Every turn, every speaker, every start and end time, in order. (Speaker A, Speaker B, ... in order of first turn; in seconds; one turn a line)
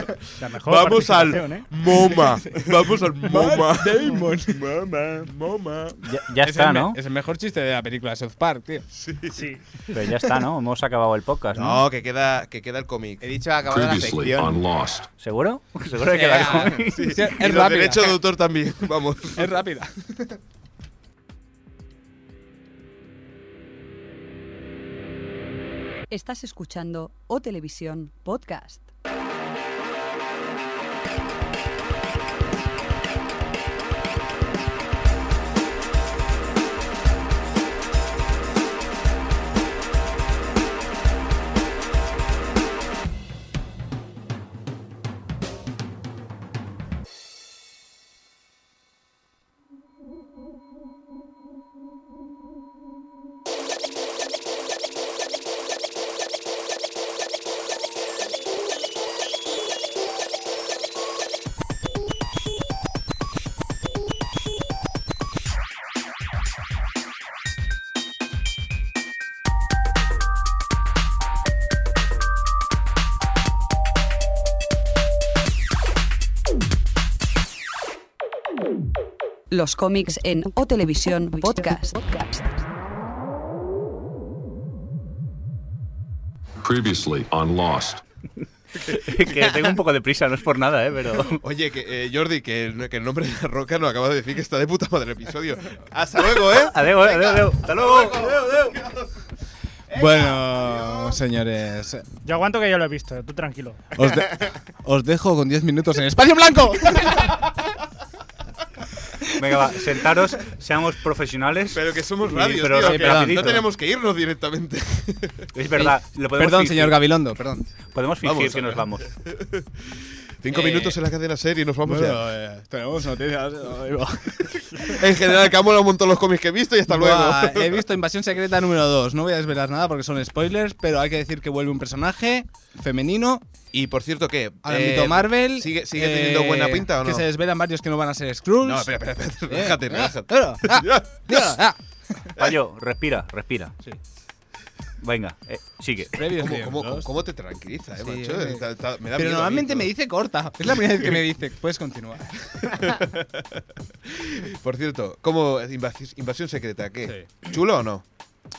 Speaker A: 0.4-2.3
Speaker B: 0.5-4.1
Speaker C: 2.2-2.7
Speaker C: 3.2-8.8
Speaker D: 6.0-7.0
Speaker B: 8.9-9.5
Speaker A: 9.3-9.6
Speaker D: 9.9-11.8
Speaker B: 11.5-13.3
Speaker E: 13.2-14.6
Speaker F: 13.6-15.1
Speaker D: 15.2-17.2
Speaker C: 16.1-18.2
Speaker E: 16.2-16.8
Speaker B: 16.9-19.5
Speaker C: 19.3-20.4
Speaker G: 26.1-28.9
Speaker G: 79.5-82.6
Speaker F: 86.6-88.0
Speaker D: 88.7-91.4
Speaker B: 91.3-99.2
Speaker D: 96.3-98.8
Speaker C: 99.9-102.1
Speaker E: 100.1-100.5
Speaker A: 102.2-103.9
Speaker C: 104.0-107.3
Speaker D: 109.3-113.6
Speaker B: 111.7-115.5
Speaker C: 112.7-113.6
Speaker D: 115.5-117.1
Speaker C: 115.7-117.7
Speaker D: 117.9-119.1
Speaker B: 118.2-122.2
Speaker C: 120.5-121.0
Speaker C: 121.8-125.0
Speaker B: 124.8-127.8
Speaker C: 126.9-133.4
Speaker B: 133.7-137.3
Speaker C: 134.6-141.8
Speaker B: 138.6-141.6
Speaker D: 142.3-143.7
Speaker D: 145.0-146.1
Speaker C: 146.1-147.1
Speaker B: 146.2-149.9
Speaker C: 148.0-152.8
Speaker B: 150.8-151.1
Speaker B: 152.7-158.0